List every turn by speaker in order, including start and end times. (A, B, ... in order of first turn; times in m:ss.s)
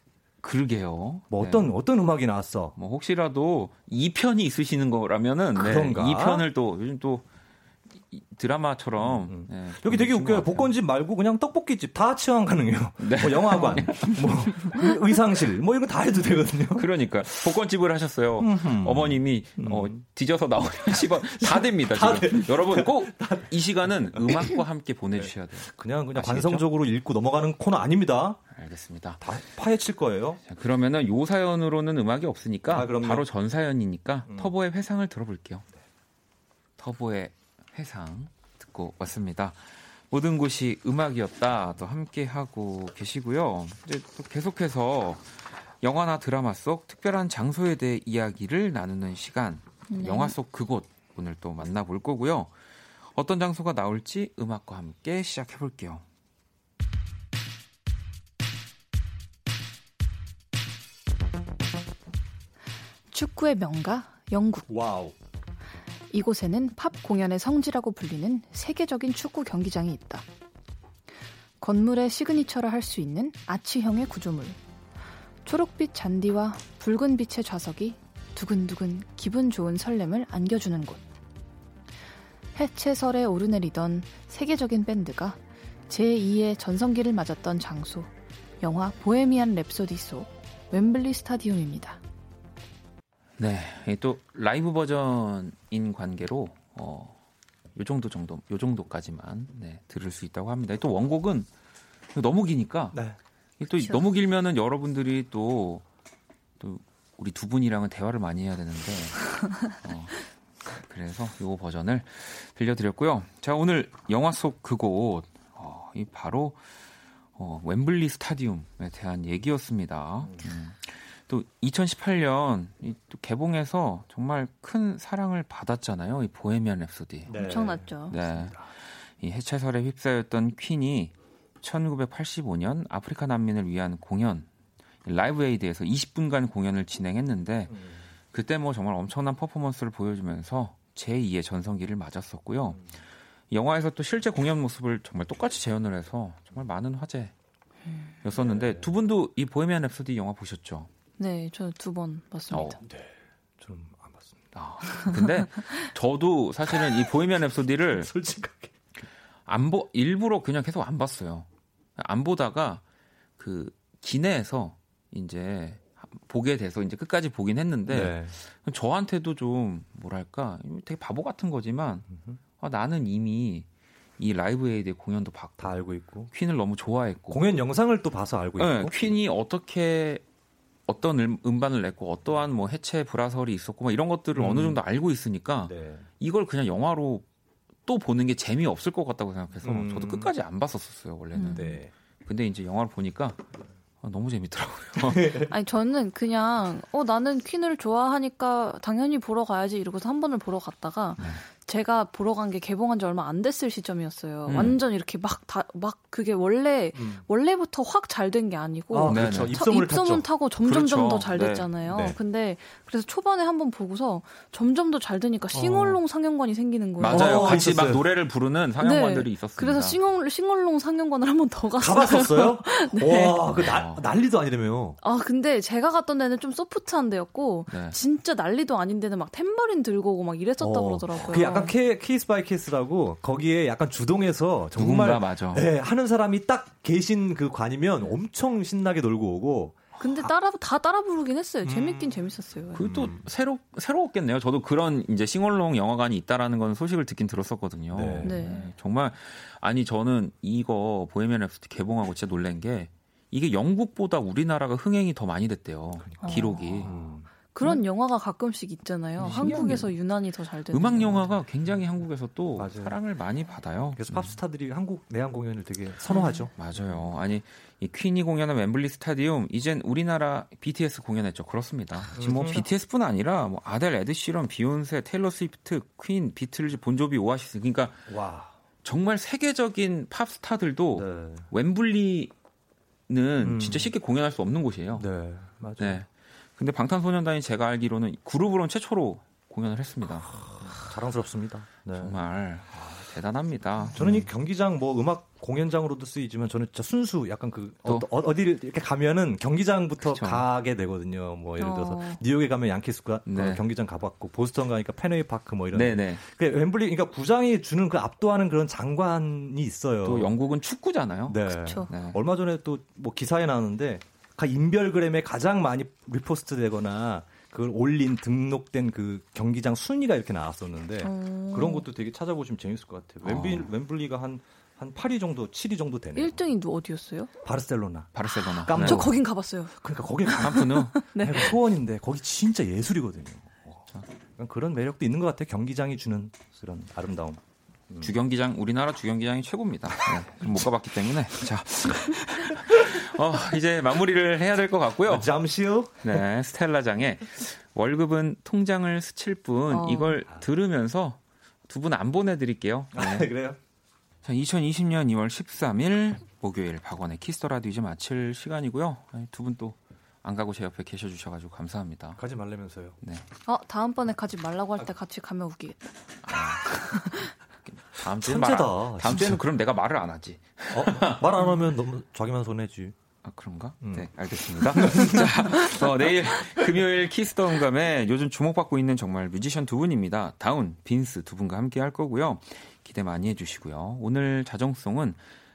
0:00.4-0:01.7 A
0:01.3-0:02.8 B
0:02.8-0:07.2 A
0:05.5-0:06.4 B
0:08.1-0:10.7 A
0:09.0-0:16.9 B
0:13.0-0:14.6 A
0:16.8-0:26.7 A
0:18.4-0:20.0 B
0:21.4-0:24.6 B
0:25.1-0:28.4 B
0:28.5-0:29.2 A
0:29.2-0:30.4 B
0:30.4-0:35.6 A
0:32.7-0:33.2 B
0:34.2-0:34.5 B
0:36.8-0:52.5 A
0:49.9-0:50.3 C
0:53.1-0:56.0 A
1:03.1-1:04.7 C
1:04.7-1:05.1 B
1:06.1-1:10.2 C
1:11.6-1:14.6 C
1:15.4-1:21.0 C
1:22.6-1:28.1 C
1:28.6-1:32.0 C
1:33.4-1:37.2 A
1:37.7-1:41.5 A
1:42.1-1:43.0 A
1:43.6-1:45.8 A
1:46.6-1:56.6 A
1:57.4-2:14.5 A
2:07.2-2:08.7 B
2:07.3-2:08.2 C
2:15.0-2:17.8 A
2:17.7-2:18.0 B
2:18.3-2:22.9 A
2:22.7-2:23.0 B
2:23.5-2:27.3 A
2:28.2-2:30.9 A
2:28.3-2:28.9 B
2:31.2-2:32.8 C
2:32.5-2:32.8 A
2:32.8-2:34.4 B
2:34.5-2:38.1 A
2:37.9-2:38.8 B
2:39.4-2:42.8 A
2:43.4-2:52.1 A
2:47.8-2:48.4 B
2:52.1-2:52.4 B
2:52.6-2:53.7 A
2:54.2-2:55.6 A
2:55.6-2:56.3 B
2:56.3-2:57.4 A
2:57.3-2:59.1 B
2:58.6-3:00.2 A
3:00.9-3:07.2 A
3:04.3-3:04.8 B
3:05.6-3:06.0 B
3:07.8-3:11.7 A
3:09.6-3:10.3 B
3:11.3-3:11.8 C
3:11.4-3:11.9 B
3:12.2-3:13.4 A
3:14.0-3:15.4 A
3:15.0-3:15.5 B
3:15.5-3:37.7 C
3:24.5-3:24.8 A
3:26.9-3:27.2 B
3:28.9-3:30.2 B
3:29.1-3:29.6 A
3:30.6-3:31.7 A
3:31.8-3:32.2 B
3:35.5-3:36.0 B
3:37.0-3:40.0 A
3:37.0-3:38.0 B
3:38.8-3:43.7 C
3:41.8-3:45.0 B
3:43.6-3:44.0 A
3:45.0-3:51.7 C
3:47.7-3:48.0 A
3:50.6-4:00.3 B
3:54.8-3:55.7 A
4:00.0-4:02.9 C
4:01.6-4:02.2 B
4:02.7-4:16.9 A
4:02.8-4:03.2 B
4:07.9-4:08.4 B
4:08.2-4:08.7 C
4:16.0-4:17.3 B
4:16.2-4:21.3 C
4:19.2-4:19.9 A
4:19.2-4:19.5 B
4:20.7-4:24.4 A
4:22.6-4:23.0 B
4:23.9-4:27.0 B
4:26.1-4:26.5 C
4:26.6-4:38.1 A
4:32.1-4:32.6 B
4:38.1-4:38.5 B
4:38.8-4:42.3 A
4:41.0-4:41.5 B
4:43.1-4:45.1 A
4:43.4-4:43.9 B
4:44.9-4:46.0 B
4:45.8-4:46.0 A
4:46.6-4:50.3 A
4:50.2-4:52.2 B
4:51.9-4:54.3 A
4:53.9-5:10.4 B
5:00.0-5:00.5 A
5:01.6-5:02.2 C
5:03.2-5:03.6 A
5:05.7-5:06.2 A
5:10.0-5:12.2 A
5:11.3-5:26.4 B
5:11.5-5:11.9 C
5:21.0-5:21.9 C
5:23.2-5:23.7 A
5:26.2-5:27.3 C
5:27.4-5:38.1 B
5:28.1-5:29.1 A
5:28.7-5:29.7 C
5:30.3-5:31.6 C
5:30.4-5:31.0 A
5:38.0-5:45.3 A
5:45.0-5:46.2 B
5:46.0-5:53.3 A
5:49.7-5:50.2 C
5:52.9-5:53.6 B
5:54.2-6:02.2 A
6:02.2-6:03.0 B
6:03.0-6:03.3 A
6:03.4-6:05.8 C
6:06.2-6:06.8 A
6:06.9-6:07.3 C
6:07.8-6:11.2 A
6:08.1-6:09.4 B
6:10.7-6:12.9 B
6:13.2-6:25.2 A
6:13.8-6:15.3 B